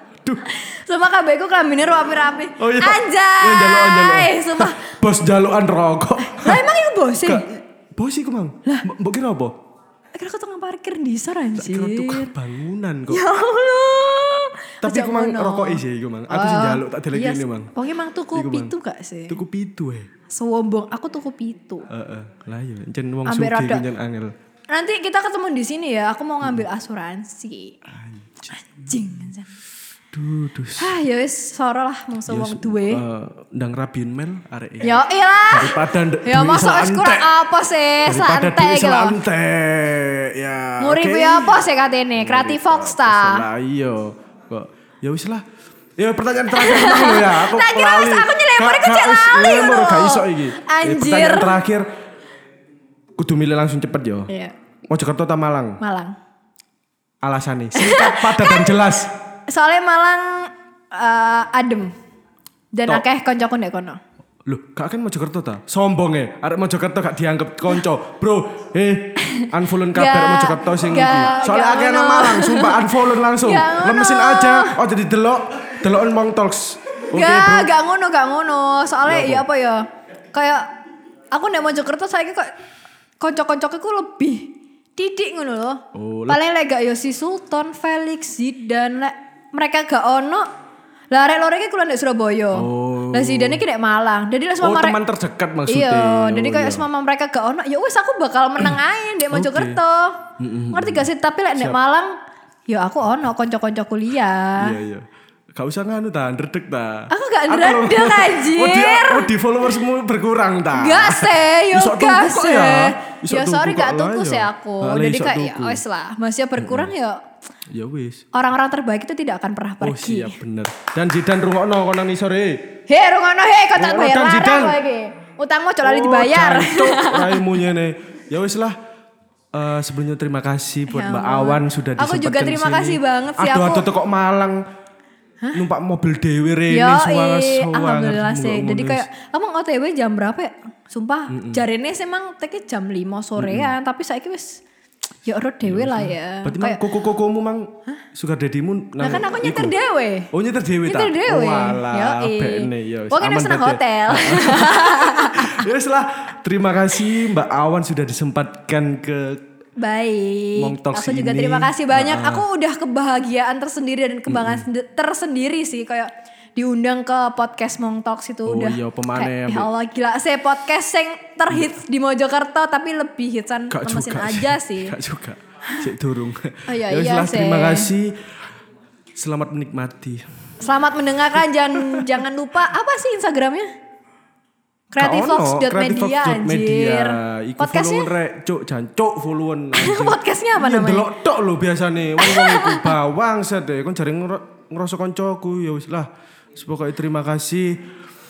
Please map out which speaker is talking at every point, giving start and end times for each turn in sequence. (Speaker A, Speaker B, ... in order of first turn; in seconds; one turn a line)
Speaker A: 0.4-4.9
Speaker B: 2.6-6.6
Speaker A: 6.2-7.5
Speaker B: 7.2-9.6
Speaker A: 10.1-12.3
Speaker B: 11.5-13.2
Speaker A: 13.1-19.4
Speaker B: 14.8-17.7
Speaker B: 18.3-18.7
Speaker B: 19.3-20.1
Speaker A: 20.3-21.9
Speaker B: 21.9-24.3
Speaker A: 23.2-23.8
Speaker A: 24.7-27.8
Speaker B: 27.9-28.9
Speaker A: 28.5-29.5
Speaker B: 30.1-30.9
Speaker A: 30.8-33.0
Speaker B: 32.3-34.9
Speaker A: 34.8-39.2
Speaker B: 35.5-37.3
Speaker B: 38.0-45.4
Speaker A: 40.8-43.5
Speaker B: 46.0-51.9
Speaker A: 46.5-51.6
Speaker B: 53.2-54.3
Speaker A: 54.3-54.5
Speaker B: 54.9-55.8
Speaker A: 55.8-56.1
Speaker B: 57.2-59.1
Speaker A: 57.7-58.8
Speaker A: 59.5-61.9
Speaker A: 62.7-64.0
Speaker B: 64.5-77.7
Speaker A: 69.2-74.8
Speaker A: 77.1-80.7
Speaker B: 79.0-79.5
Speaker A: 81.3-82.5
Speaker A: 83.2-90.5
Speaker B: 85.9-86.4
Speaker A: 91.1-95.0
Speaker B: 92.5-93.6
Speaker B: 94.6-96.9
Speaker A: 95.7-102.2
Speaker B: 99.3-99.8
Speaker B: 100.4-101.8
Speaker A: 102.7-104.8
Speaker B: 104.6-115.8
Speaker A: 107.1-109.3
Speaker A: 110.7-117.2
Speaker B: 116.6-116.9
Speaker B: 117.7-118.2
Speaker A: 118.3-120.4
Speaker B: 119.8-122.8
Speaker A: 122.9-127.5
Speaker B: 123.8-124.8
Speaker B: 125.8-128.8
Speaker B: 129.5-134.6
Speaker A: 130.9-133.9
Speaker B: 135.5-139.1
Speaker A: 136.7-144.6
Speaker B: 141.3-141.6
Speaker B: 143.4-143.7
Speaker A: 145.2-146.8
Speaker B: 145.6-149.8
Speaker A: 149.0-150.3
Speaker B: 150.3-159.4
Speaker A: 150.8-155.6
Speaker A: 159.8-174.9
Speaker B: 160.6-162.4
Speaker B: 164.3-164.7
Speaker B: 168.4-169.7
Speaker B: 171.5-171.7
Speaker B: 173.7-178.3
Speaker A: 176.7-177.9
Speaker B: 179.1-180.2
Speaker A: 180.6-183.7
Speaker B: 181.7-182.2
Speaker A: 184.9-188.1
Speaker B: 185.0-197.8
Speaker A: 189.8-191.1
Speaker A: 192.2-192.9